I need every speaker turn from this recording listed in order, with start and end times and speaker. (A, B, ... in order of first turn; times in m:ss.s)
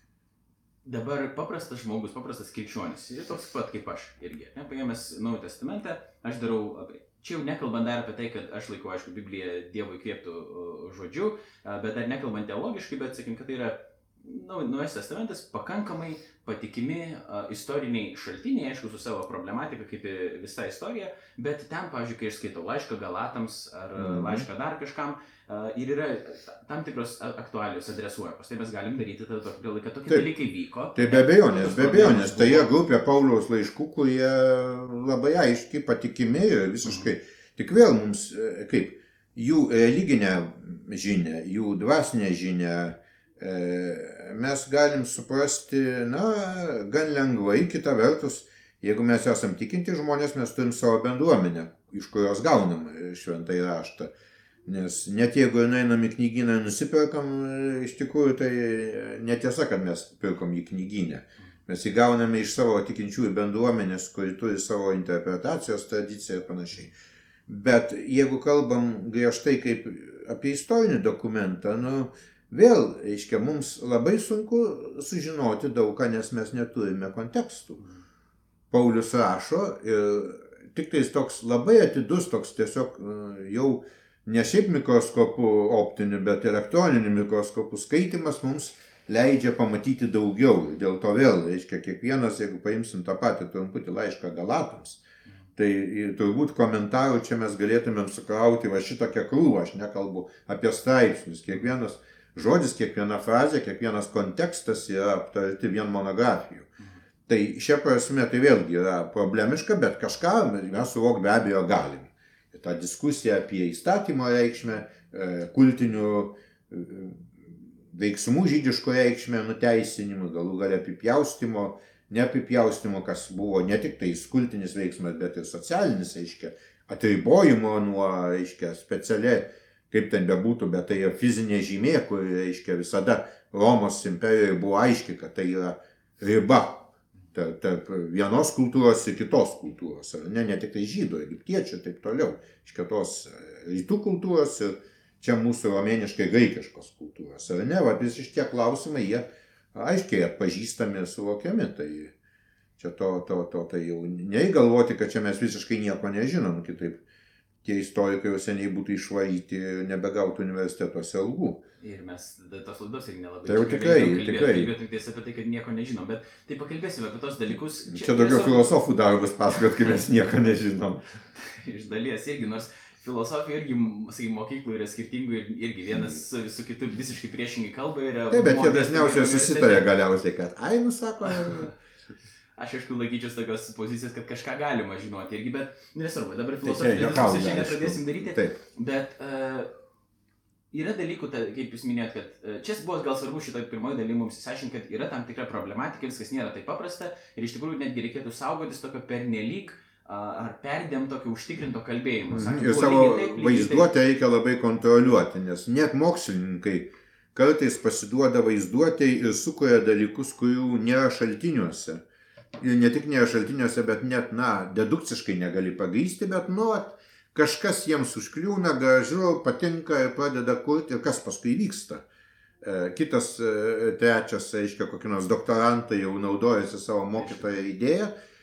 0:00.8-0:32.7 A
0:24.0-0:24.4 B
0:30.9-0:54.1 B
0:54.6-1:06.9 B
1:07.5-1:17.8 B
1:18.7-1:35.0 B
1:35.6-1:46.7 B
1:47.3-2:32.1 B
2:32.8-2:37.0 B
2:37.6-2:41.6 B
2:41.8-2:48.7 A
2:43.4-2:44.7 B
2:47.9-2:51.0 B
2:51.4-2:59.9 A
2:58.3-3:01.7 B
3:01.3-3:01.7 A
3:02.6-3:09.7 A
3:06.6-3:08.6 B
3:10.7-3:23.9 A
3:22.3-3:32.0 B
3:32.6-3:42.0 B
3:42.6-3:48.1 B